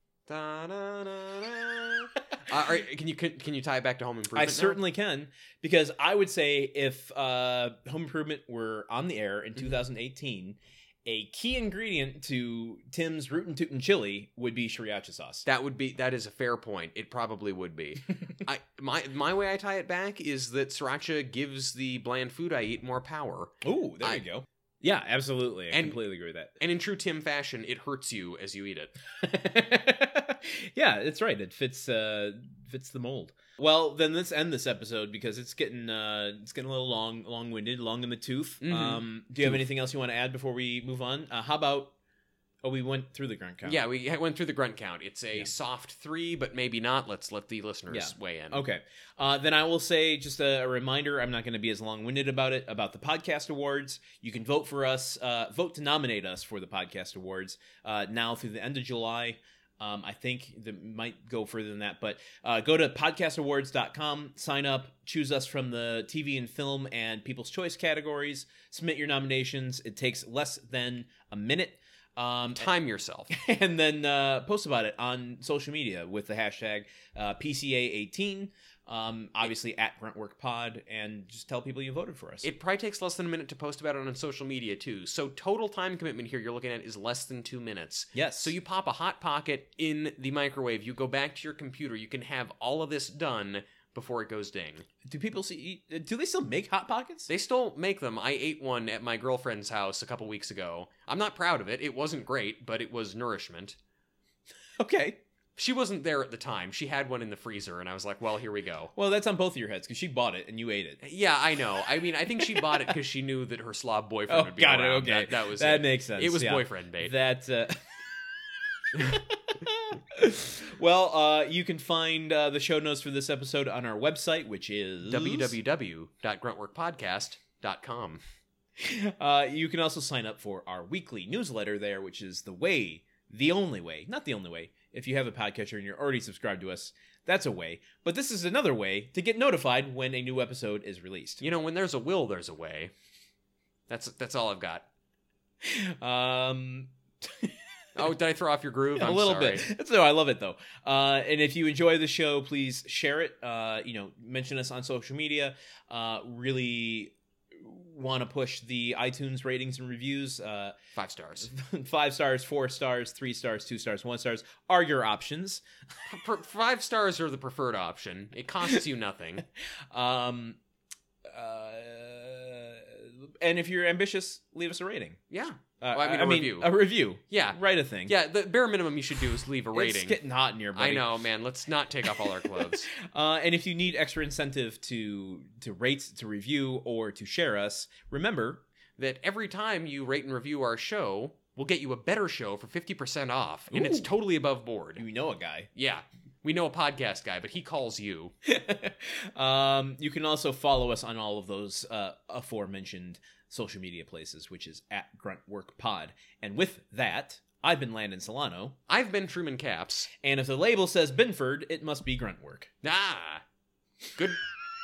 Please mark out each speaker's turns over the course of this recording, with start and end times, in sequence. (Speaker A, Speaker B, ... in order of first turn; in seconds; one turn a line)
Speaker A: 0.3-4.8
Speaker B: 4.3-15.5
Speaker A: 15.5-24.2
Speaker B: 23.6-26.6
Speaker A: 25.7-26.0
Speaker A: 26.6-28.9
Speaker B: 29.2-41.9
Speaker A: 38.6-39.6
Speaker B: 42.6-43.8
Speaker A: 43.6-48.6
Speaker B: 47.9-72.7
Speaker A: 72.6-73.3
Speaker B: 73.3-82.5
Speaker A: 82.4-94.9
Speaker B: 88.1-88.5
Speaker B: 95.0-97.3
Speaker A: 97.3-103.8
Speaker B: 104.8-105.2
Speaker A: 105.6-108.9
Speaker B: 109.0-111.0
Speaker A: 111.0-117.1
Speaker B: 112.4-112.8
Speaker B: 114.3-125.6
Speaker A: 125.1-128.2
Speaker B: 128.8-141.4
Speaker A: 141.4-142.9
Speaker A: 143.9-144.9
Speaker B: 145.6-148.0
Speaker A: 148.0-149.7
Speaker B: 149.0-160.8
Speaker A: 160.9-161.5
Speaker B: 161.4-165.7
Speaker A: 166.1-169.4
Speaker B: 169.6-170.6
Speaker B: 171.3-175.2
Speaker A: 175.3-176.8
Speaker B: 175.8-178.1
Speaker A: 177.3-180.2
Speaker B: 179.7-181.1
Speaker A: 180.8-182.9
Speaker B: 182.4-188.6
Speaker A: 189.0-195.0
Speaker B: 193.7-194.1
Speaker B: 195.0-195.7
Speaker A: 195.8-198.3
Speaker B: 198.4-208.8
Speaker A: 208.9-210.1
Speaker B: 210.2-212.7
Speaker A: 212.8-213.4